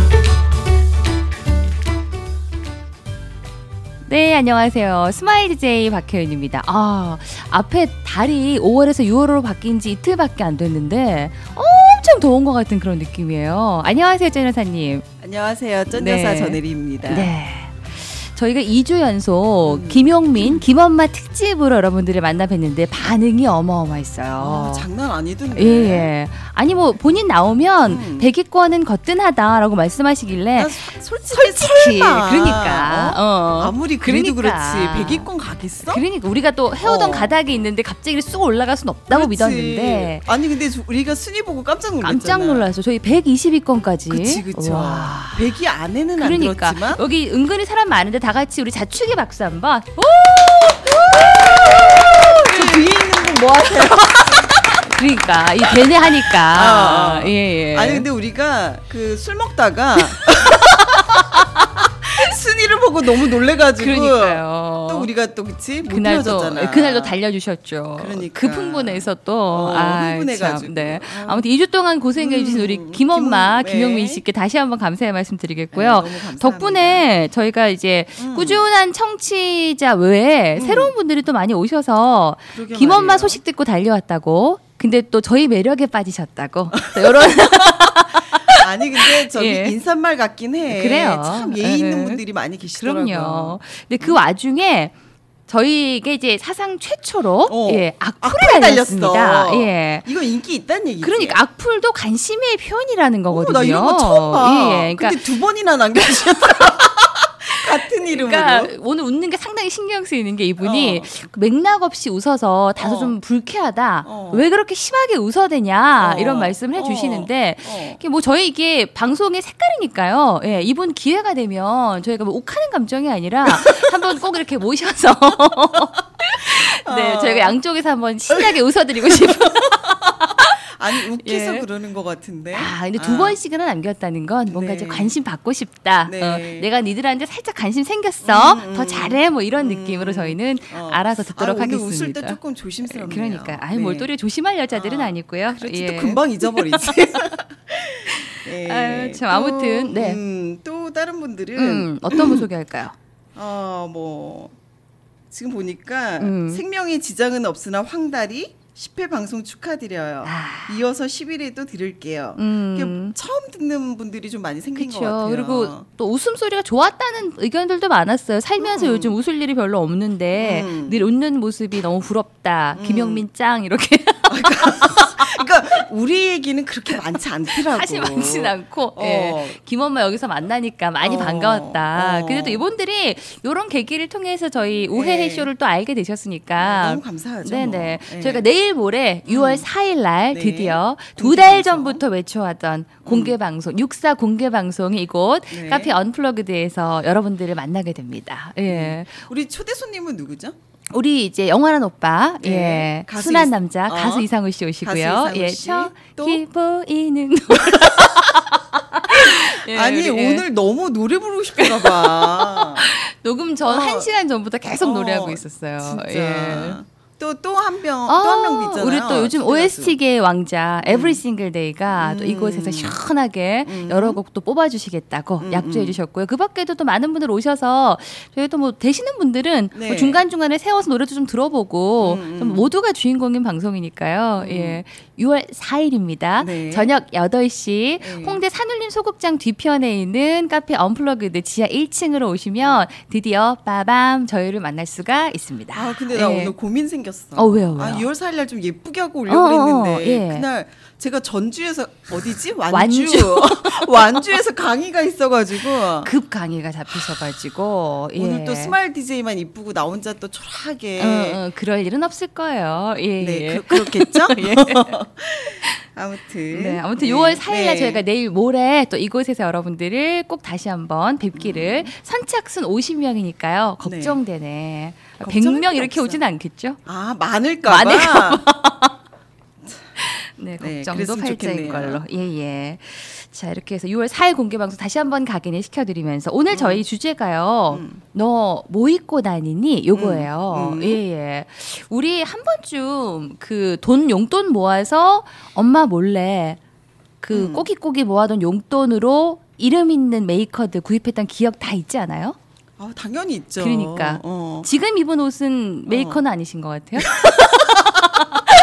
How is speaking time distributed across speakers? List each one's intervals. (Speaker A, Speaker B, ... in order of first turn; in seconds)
Speaker A: 4.1-15.1, 15.9-24.9, 25.6-35.3, 35.8-40.3, 42.0-45.5, 46.2-52.8, 54.4-58.1, 63.8-65.1, 65.9-89.8, 90.7-92.2, 92.8-94.9, 95.5-100.1, 101.0-105.2, 107.6-131.7, 132.5-147.3, 148.1-150.2, 151.6-152.9, 156.2-156.6, 160.2-160.8, 162.4-163.2, 164.8-175.4, 177.5-199.3, 200.9-210.4, 211.6-216.8, 218.1-246.6, 247.4-248.1, 249.3-250.5, 252.7-254.2, 256.0-258.8, 261.0-265.0, 266.5-276.8, 277.7-278.9, 280.0-296.6, 297.2-302.4, 303.6-308.2
Speaker B: 15.2-17.3, 19.6-20.6, 24.4-26.1, 27.9-28.3, 30.6-36.0, 36.8-37.4, 39.1-42.6, 44.1-47.0, 51.1-54.5, 56.5-67.2, 68.0-71.5, 72.2-74.2, 75.7-77.1, 78.2-78.6, 80.5-80.9, 82.5-83.4, 86.8-87.8, 88.5-94.2, 97.5-101.4, 103.3-108.7, 110.6-111.1, 112.8-113.2, 114.0-114.5, 116.0-118.0, 123.5-123.8, 126.6-127.5, 129.1-129.8, 130.8-133.4, 134.5-135.1, 136.1-136.7, 138.2-144.1, 144.7-152.4, 153.3-154.5, 155.3-165.8, 168.6-169.2, 170.3-171.0, 172.8-173.2, 174.3-179.6, 181.0-182.6, 184.9-185.5, 186.6-188.4, 189.3-189.7, 190.3-192.0, 193.1-193.3, 195.5-195.9, 198.7-200.6, 202.4-204.3, 204.8-206.4, 207.8-208.1, 209.2-212.8, 213.7-214.1, 214.8-219.9, 220.8-221.2, 221.9-223.0, 223.7-224.2, 225.4-226.0, 229.7-230.2, 232.0-232.7, 234.4-234.8, 236.4-236.9, 238.0-238.4, 245.7-256.1, 258.2-261.4, 263.2-268.0, 271.4-271.9, 273.8-274.2, 275.2-276.2, 276.9-278.4, 280.6-282.0, 286.5-286.8, 287.7-288.0, 289.9-291.0, 297.3-297.7, 302.8-304.7, 305.9-306.2, 307.1-308.0